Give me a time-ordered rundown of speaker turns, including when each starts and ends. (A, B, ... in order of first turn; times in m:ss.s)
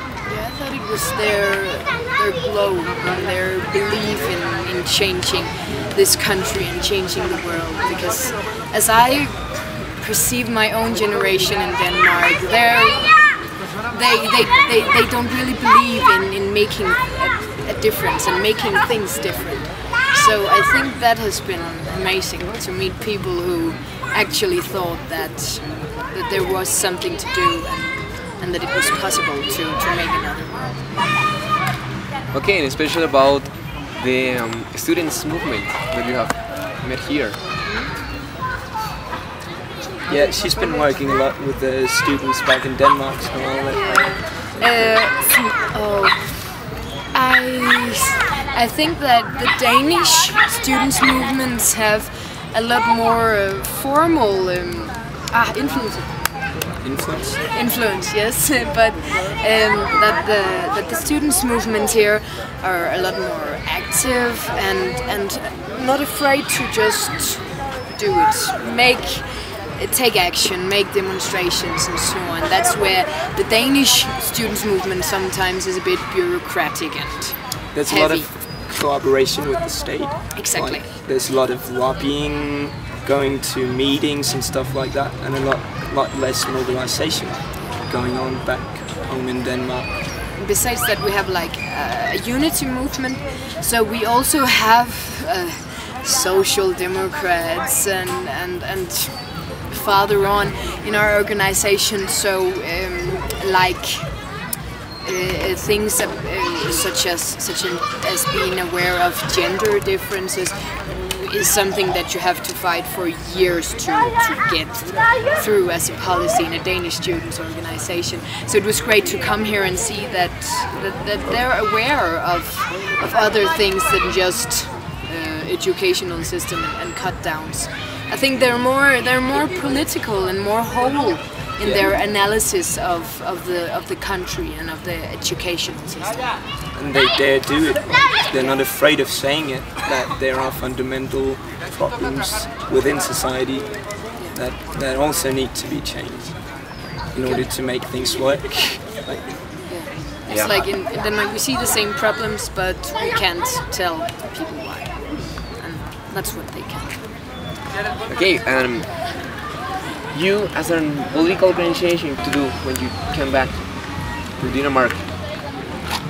0:00.2-0:31.0 A
0:05.6-0:05.9 B
0:32.3-0:37.4 C
0:37.6-0:38.0 A
0:40.0-0:45.1 B
0:43.7-0:46.6 A
0:47.1-0:56.3 A
0:56.8-0:57.4 B
0:57.5-1:18.3 A
1:17.7-1:30.0 B
1:20.3-1:20.9 A
1:30.3-1:44.2 A
1:45.0-2:16.4 A
2:11.6-2:11.9 B
2:16.7-2:30.0 B
2:27.2-2:27.5 A
2:29.6-2:37.0 A
2:30.3-2:30.5 C
2:38.1-2:39.3 C
2:40.1-2:45.1 C